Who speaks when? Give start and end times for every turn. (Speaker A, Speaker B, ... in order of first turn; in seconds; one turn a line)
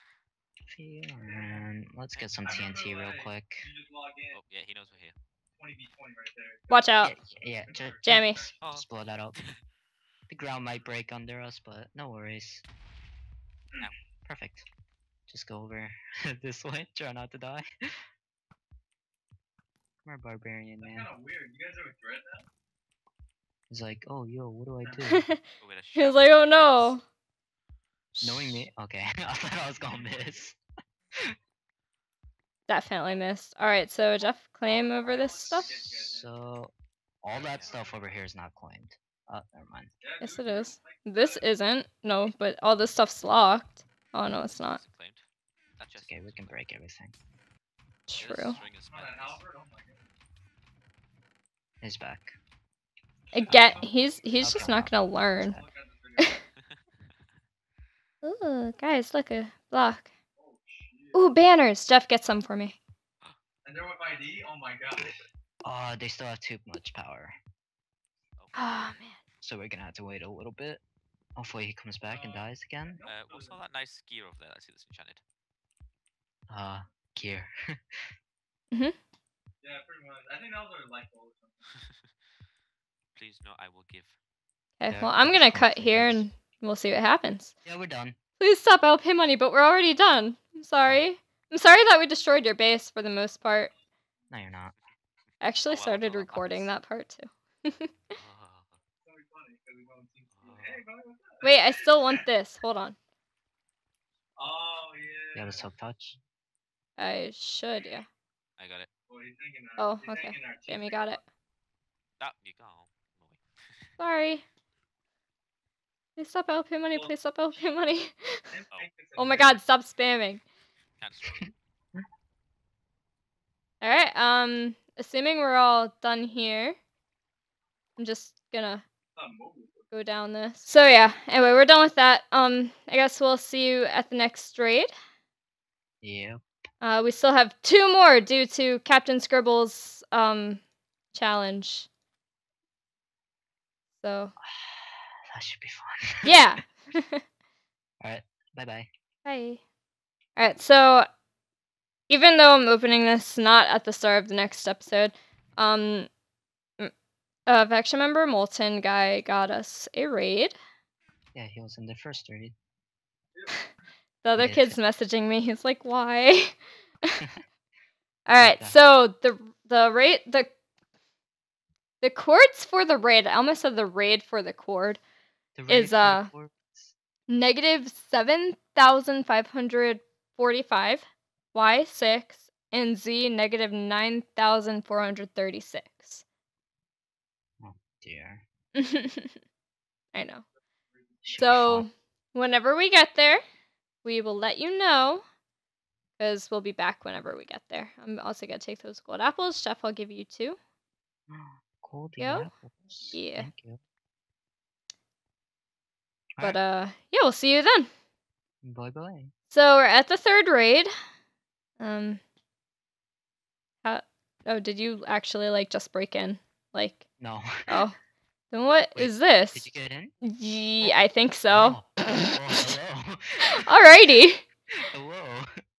Speaker A: 0.7-3.6
Speaker B: 1.2-1.6
Speaker B: 2.4-4.4
Speaker C: 4.3-5.2
Speaker B: 5.5-6.9
Speaker D: 6.7-7.1
Speaker A: 7.0-9.4
Speaker B: 7.5-8.6
Speaker D: 8.0-8.4
Speaker C: 8.6-9.6
Speaker A: 10.3-12.6
Speaker A: 14.2-14.7
Speaker A: 15.3-17.6
Speaker A: 20.0-21.1
Speaker B: 20.8-22.5
Speaker A: 23.7-25.2
Speaker D: 25.1-25.4
Speaker C: 25.6-27.0
Speaker D: 25.9-27.0
Speaker D: 28.1-28.6
Speaker A: 28.2-30.6
Speaker B: 29.6-30.2
Speaker D: 32.7-35.7
Speaker B: 34.7-36.3
Speaker A: 35.8-39.9
Speaker C: 37.3-37.8
Speaker B: 37.6-38.0
Speaker B: 40.0-41.5
Speaker D: 40.2-44.8
Speaker C: 44.4-45.2
Speaker C: 45.8-46.6
Speaker A: 46.0-47.1
Speaker D: 48.1-48.6
Speaker C: 48.2-49.4
Speaker B: 48.9-50.0
Speaker A: 51.8-52.4
Speaker D: 53.3-55.6
Speaker B: 53.4-56.4
Speaker A: 54.4-55.6
Speaker D: 58.2-60.1
Speaker B: 60.4-61.2
Speaker D: 61.1-62.8
Speaker B: 63.6-65.2
Speaker A: 65.6-67.3
Speaker D: 68.5-69.2
Speaker A: 69.4-70.8
Speaker A: 71.3-73.0
Speaker B: 72.0-73.6
Speaker C: 73.0-75.2
Speaker A: 76.5-78.0
Speaker B: 79.6-81.8
Speaker C: 81.7-82.1
Speaker C: 83.1-84.2
Speaker D: 84.8-87.5
Speaker A: 84.9-86.3
Speaker A: 87.6-88.2
Speaker D: 88.4-93.7
Speaker A: 94.3-94.7
Speaker D: 95.4-97.9
Speaker C: 95.6-96.7
Speaker C: 98.1-98.8
Speaker B: 99.0-101.7
Speaker C: 100.3-100.8
Speaker D: 101.4-103.0
Speaker B: 104.4-105.7
Speaker A: 105.3-106.2
Speaker D: 107.0-108.1
Speaker C: 108.6-108.9
Speaker B: 109.1-111.2
Speaker D: 109.8-111.2
Speaker C: 112.2-113.9
Speaker D: 114.0-114.4
Speaker D: 116.2-118.3
Speaker B: 118.5-119.6
Speaker D: 119.2-120.4
Speaker C: 121.0-121.5
Speaker A: 121.4-122.0
Speaker D: 123.8-126.8
Speaker D: 128.0-128.8
Speaker B: 129.2-129.8
Speaker D: 129.9-134.9
Speaker A: 136.0-136.4
Speaker D: 136.8-140.6
Speaker D: 141.1-141.9
Speaker D: 144.0-144.3
Speaker A: 144.4-146.4
Speaker D: 146.2-147.2
Speaker A: 148.0-148.9
Speaker D: 149.2-149.6
Speaker D: 150.3-151.1
Speaker D: 152.1-156.1
Speaker D: 157.5-160.6
Speaker A: 161.3-162.5
Speaker D: 164.2-166.6
Speaker A: 164.3-164.8
Speaker D: 168.3-170.5
Speaker A: 168.4-168.8
Speaker D: 172.0-175.0
Speaker A: 175.5-176.9
Speaker D: 175.7-176.3
Speaker D: 177.3-186.2
Speaker A: 187.6-188.4
Speaker D: 188.8-189.3
Speaker D: 190.1-190.4
Speaker B: 190.9-191.2
Speaker A: 191.2-191.8
Speaker D: 191.4-193.4
Speaker D: 194.0-195.2
Speaker D: 196.2-200.6
Speaker A: 201.3-203.8
Speaker D: 202.2-202.5
Speaker D: 203.1-203.5
Speaker D: 206.4-207.9
Speaker A: 208.6-209.3
Speaker D: 209.5-210.9
Speaker D: 211.8-212.2
Speaker D: 213.8-217.0
Speaker A: 217.2-217.4
Speaker D: 217.7-218.0
Speaker D: 218.5-219.7
Speaker A: 218.9-220.1
Speaker D: 220.2-221.8
Speaker A: 221.5-223.4
Speaker D: 223.6-224.4
Speaker A: 224.9-225.5